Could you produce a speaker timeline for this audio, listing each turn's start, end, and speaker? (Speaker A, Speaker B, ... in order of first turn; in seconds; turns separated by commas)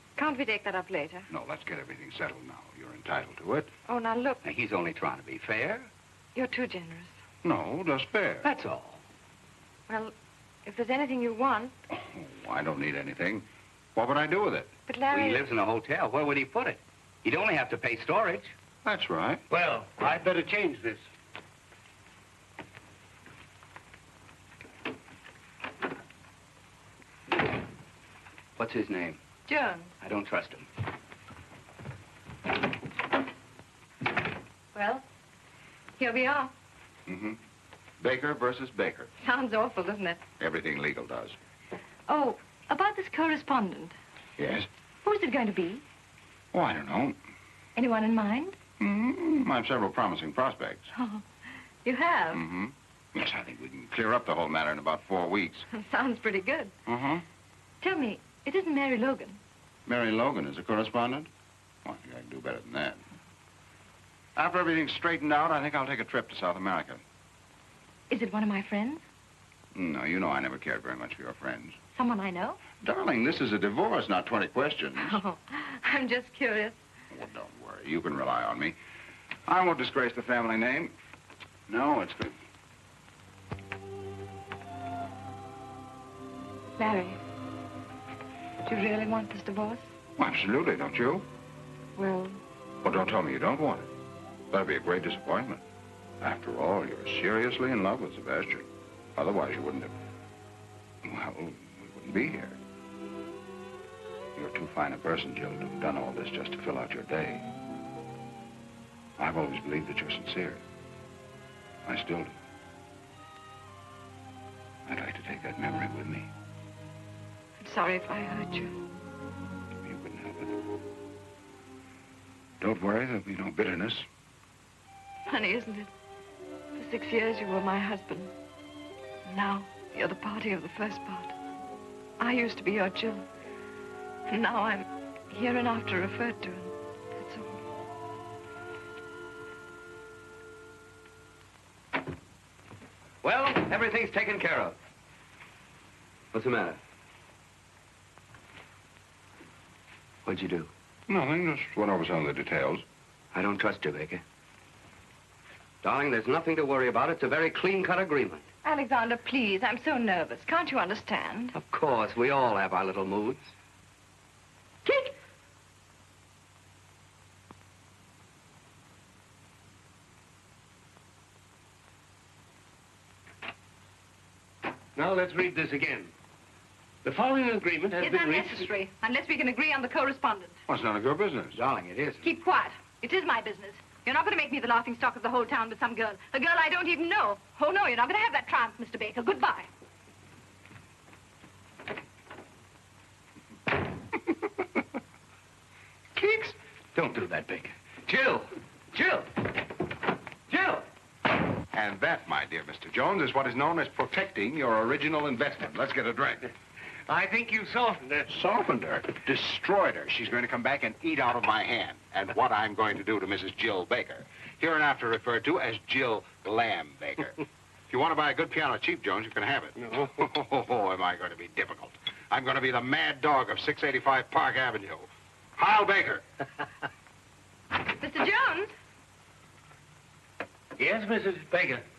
Speaker A: 0.2-1.3, Speaker B: 1.3-3.7, Speaker A: 3.9-4.4, Speaker C: 4.4-5.9, Speaker A: 6.3-7.1, Speaker B: 7.4-8.5, Speaker C: 8.4-9.0, Speaker A: 9.9-10.1, Speaker A: 10.7-11.7, Speaker B: 11.9-14.7, Speaker A: 14.9-15.5, Speaker C: 15.1-18.5, Speaker B: 18.9-19.4, Speaker D: 19.5-21.0, Speaker C: 28.6-29.2, Speaker A: 29.5-29.9, Speaker C: 30.0-30.7, Speaker A: 34.7-35.0, Speaker A: 36.0-36.5, Speaker B: 37.1-37.4, Speaker B: 38.0-39.1, Speaker A: 39.2-40.2, Speaker B: 40.4-41.4, Speaker A: 42.1-44.0, Speaker B: 44.4-44.7, Speaker A: 45.0-45.8, Speaker B: 46.5-47.2, Speaker A: 47.8-48.6, Speaker B: 48.8-50.9, Speaker A: 51.0-51.2, Speaker A: 51.9-52.4, Speaker B: 52.3-55.7, Speaker A: 55.7-56.7, Speaker B: 56.9-57.2, Speaker A: 57.8-59.4, Speaker B: 59.9-61.3, Speaker B: 61.9-63.0, Speaker B: 64.4-67.0, Speaker A: 68.1-69.0, Speaker B: 69.7-71.8, Speaker A: 72.0-72.6, Speaker B: 72.8-75.2, Speaker A: 75.0-76.8, Speaker B: 77.1-78.8, Speaker B: 79.5-80.9, Speaker B: 81.7-82.3, Speaker A: 86.8-87.2, Speaker A: 88.7-89.8, Speaker B: 90.2-91.2, Speaker A: 92.0-92.4, Speaker B: 92.8-93.9, Speaker B: 94.5-95.6, Speaker B: 96.2-99.9, Speaker B: 101.0-102.6, Speaker B: 104.4-107.5, Speaker B: 109.2-110.6, Speaker B: 111.9-112.3, Speaker B: 114.9-116.3, Speaker A: 117.6-118.8, Speaker B: 119.8-120.6, Speaker B: 122.6-124.1, Speaker A: 125.3-125.9, Speaker A: 126.8-128.3, Speaker A: 129.3-131.3, Speaker A: 132.2-133.2, Speaker A: 134.3-137.5, Speaker C: 143.2-144.8, Speaker C: 146.3-146.8, Speaker C: 150.3-150.7, Speaker B: 151.1-152.8, Speaker C: 153.3-154.2, Speaker C: 155.8-158.4, Speaker A: 158.6-161.6, Speaker C: 161.6-163.5, Speaker A: 164.9-165.1, Speaker D: 175.0-176.1, Speaker D: 177.0-178.6, Speaker A: 178.0-180.6, Speaker B: 180.7-181.6, Speaker C: 181.5-182.3, Speaker A: 182.2-189.7, Speaker C: 196.2-199.5, Speaker C: 200.5-200.8, Speaker B: 201.7-206.5, Speaker D: 207.1-208.3, Speaker B: 208.3-226.2, Speaker A: 228.0-228.7, Speaker D: 230.8-231.8